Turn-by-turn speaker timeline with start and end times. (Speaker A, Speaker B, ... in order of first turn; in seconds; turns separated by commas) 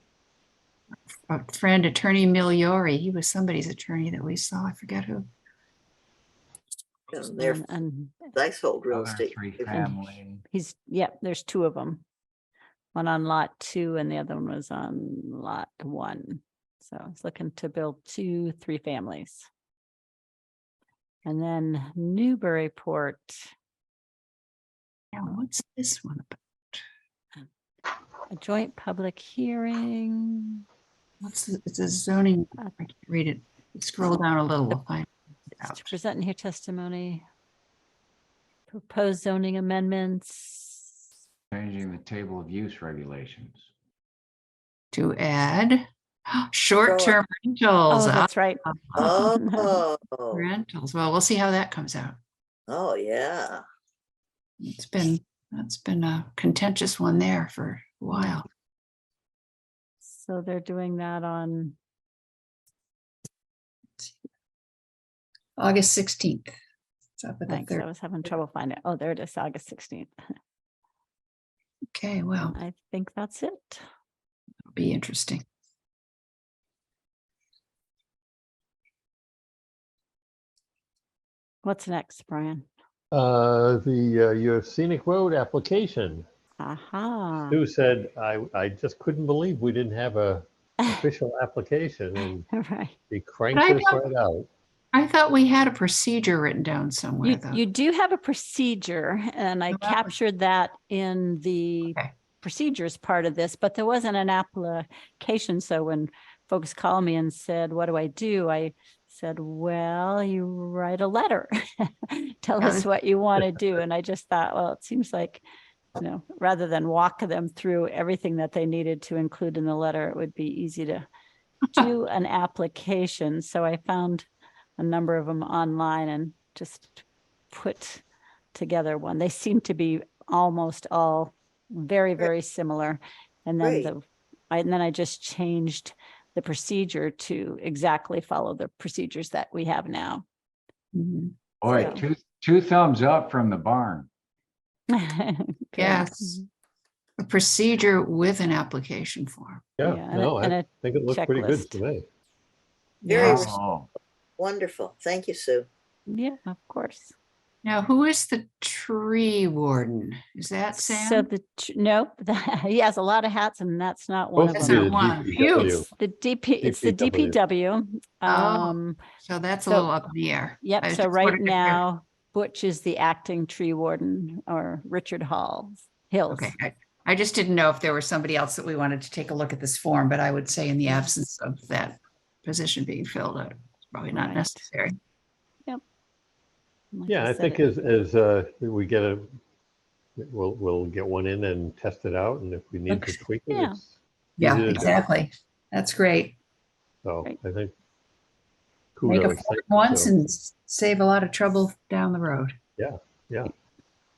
Speaker A: 1.3-5.2, Speaker B: 7.1-7.8, Speaker C: 7.3-8.3, Speaker B: 8.3-9.7, Speaker D: 8.9-10.4, Speaker C: 9.7-12.0, Speaker C: 12.9-19.5, Speaker C: 21.2-23.5, Speaker A: 25.1-26.8, Speaker C: 28.3-30.6, Speaker A: 31.2-36.0, Speaker C: 35.6-37.2, Speaker C: 38.7-40.9, Speaker D: 41.5-43.6, Speaker A: 44.9-49.1, Speaker B: 46.8-47.2, Speaker C: 47.9-49.8, Speaker B: 48.9-50.5, Speaker A: 50.3-52.2, Speaker B: 52.7-53.6, Speaker A: 54.6-58.5, Speaker C: 60.1-61.8, Speaker A: 65.6-66.5, Speaker A: 67.2-67.8, Speaker C: 67.5-70.1, Speaker A: 71.9-72.5, Speaker C: 72.5-73.8, Speaker A: 74.7-75.4, Speaker C: 81.6-82.7, Speaker E: 83.1-86.2, Speaker C: 86.6-87.6, Speaker E: 87.5-92.5, Speaker C: 92.5-93.0, Speaker E: 93.1-94.5, Speaker A: 93.5-94.0, Speaker A: 94.9-97.6, Speaker C: 97.2-115.4, Speaker A: 99.7-100.1, Speaker A: 101.8-102.1, Speaker A: 112.6-112.8, Speaker C: 116.0-121.1, Speaker C: 121.7-124.3, Speaker C: 124.8-128.0, Speaker C: 128.5-140.2, Speaker B: 133.6-133.9, Speaker A: 140.9-141.3, Speaker D: 141.6-144.1, Speaker C: 141.6-142.0, Speaker C: 144.9-146.4, Speaker A: 145.8-146.4, Speaker A: 147.2-149.7, Speaker E: 149.8-152.0, Speaker C: 149.8-151.8, Speaker B: 153.0-153.6, Speaker A: 153.1-153.5, Speaker D: 153.1-153.9, Speaker B: 154.4-155.7, Speaker C: 156.1-157.1, Speaker A: 157.6-161.3, Speaker C: 160.8-169.0, Speaker E: 164.4-165.9, Speaker A: 164.6-165.7, Speaker E: 166.6-167.4, Speaker A: 168.2-171.8, Speaker C: 169.7-169.9, Speaker C: 170.6-176.5, Speaker A: 176.3-184.9, Speaker C: 184.1-184.6, Speaker C: 186.9-187.7, Speaker E: 187.1-189.3, Speaker E: 190.2-195.0, Speaker A: 192.9-193.2, Speaker C: 193.5-193.8, Speaker A: 194.4-196.3, Speaker E: 197.0-197.7, Speaker E: 198.9-200.2, Speaker A: 199.0-202.5, Speaker E: 202.8-203.5